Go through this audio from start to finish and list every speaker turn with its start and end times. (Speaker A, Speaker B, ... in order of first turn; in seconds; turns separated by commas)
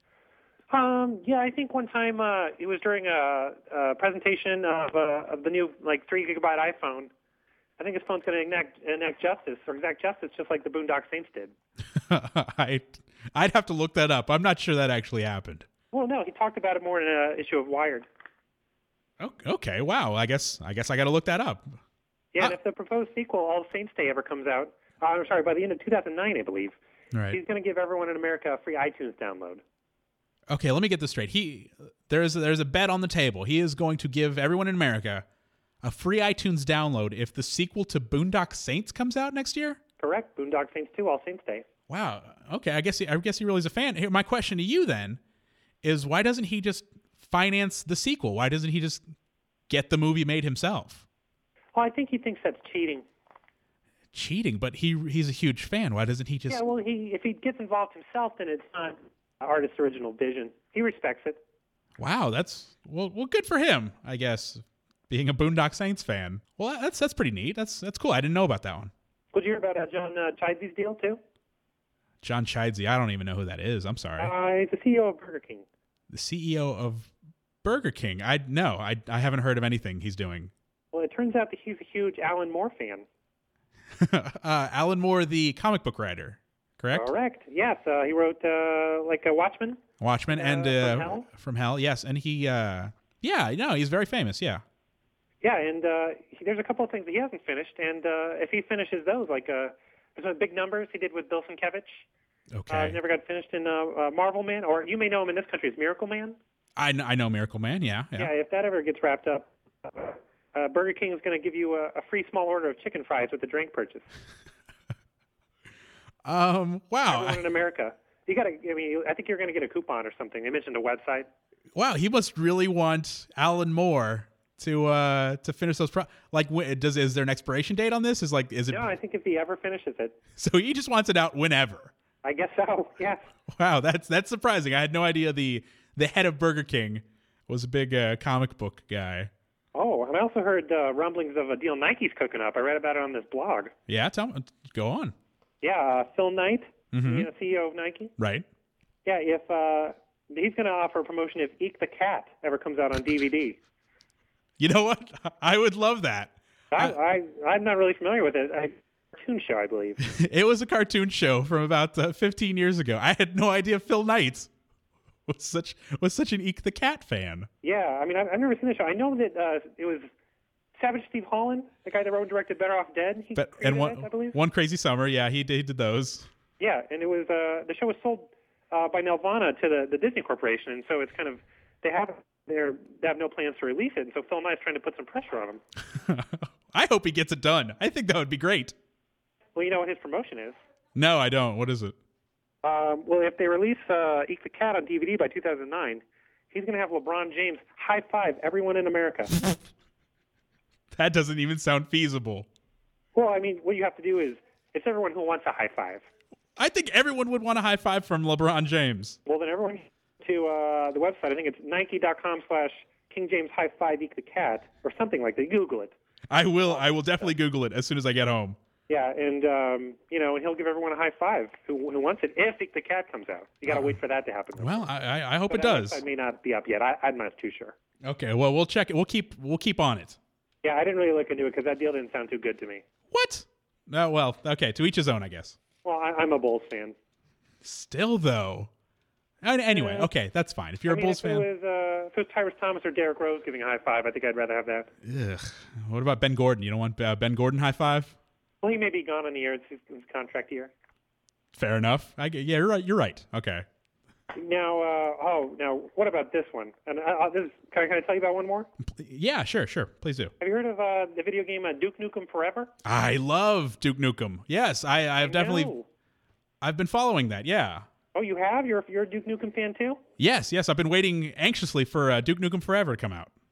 Speaker A: 0.7-7.1, Speaker A: 7.8-11.5, Speaker B: 12.1-15.7, Speaker A: 15.9-18.1, Speaker B: 19.2-21.7, Speaker A: 22.3-26.8, Speaker B: 27.1-27.4, Speaker A: 27.3-29.6, Speaker B: 30.5-35.2, Speaker B: 35.8-39.8, Speaker A: 40.0-41.6, Speaker B: 41.9-45.2, Speaker B: 45.8-49.0, Speaker B: 49.7-51.0, Speaker A: 51.7-53.0, Speaker B: 54.1-56.6, Speaker A: 56.5-61.4, Speaker B: 62.0-68.9, Speaker A: 69.3-71.2, Speaker B: 72.2-74.3, Speaker A: 74.2-75.6, Speaker B: 76.1-77.1, Speaker B: 77.6-80.5, Speaker A: 80.9-83.0, Speaker B: 84.0-87.1, Speaker A: 86.9-91.2, Speaker B: 90.0-94.6, Speaker A: 95.4-102.0, Speaker B: 102.5-103.0, Speaker A: 102.7-106.4, Speaker B: 106.8-108.3, Speaker A: 108.2-114.0, Speaker B: 116.2-117.4, Speaker A: 117.1-121.3, Speaker B: 121.7-128.9, Speaker A: 128.7-130.1, Speaker B: 130.4-131.9, Speaker A: 132.2-133.3, Speaker B: 133.6-139.3, Speaker A: 139.7-143.7, Speaker B: 143.9-145.1, Speaker A: 145.6-148.1, Speaker B: 146.9-147.3, Speaker B: 148.2-148.4, Speaker A: 149.0-153.6, Speaker B: 154.6-156.9, Speaker A: 156.7-160.0, Speaker B: 160.0-164.5, Speaker B: 165.3-167.5, Speaker A: 167.6-170.1, Speaker A: 170.8-174.4, Speaker B: 173.3-176.3, Speaker A: 176.6-185.6, Speaker B: 186.0-188.7, Speaker A: 189.5-190.6, Speaker B: 190.9-191.9, Speaker A: 192.6-199.3, Speaker B: 200.9-202.5, Speaker A: 203.1-206.0, Speaker B: 206.6-209.2, Speaker A: 209.2-215.9, Speaker B: 216.3-218.6, Speaker A: 216.6-217.3, Speaker A: 218.9-224.9, Speaker B: 223.7-223.9, Speaker B: 224.6-226.0, Speaker A: 225.5-227.8, Speaker B: 228.0-230.2, Speaker A: 230.6-232.8, Speaker B: 233.1-235.6, Speaker A: 235.8-236.9, Speaker B: 237.6-238.7, Speaker B: 239.4-241.5, Speaker A: 239.7-240.1, Speaker A: 240.9-244.9, Speaker B: 245.0-248.1, Speaker A: 248.6-250.7, Speaker B: 251.5-253.6, Speaker A: 254.3-258.7, Speaker B: 258.8-260.3, Speaker A: 260.4-262.7, Speaker B: 262.8-265.7, Speaker A: 265.2-265.9, Speaker B: 266.6-267.8, Speaker A: 268.1-270.0, Speaker B: 270.2-273.3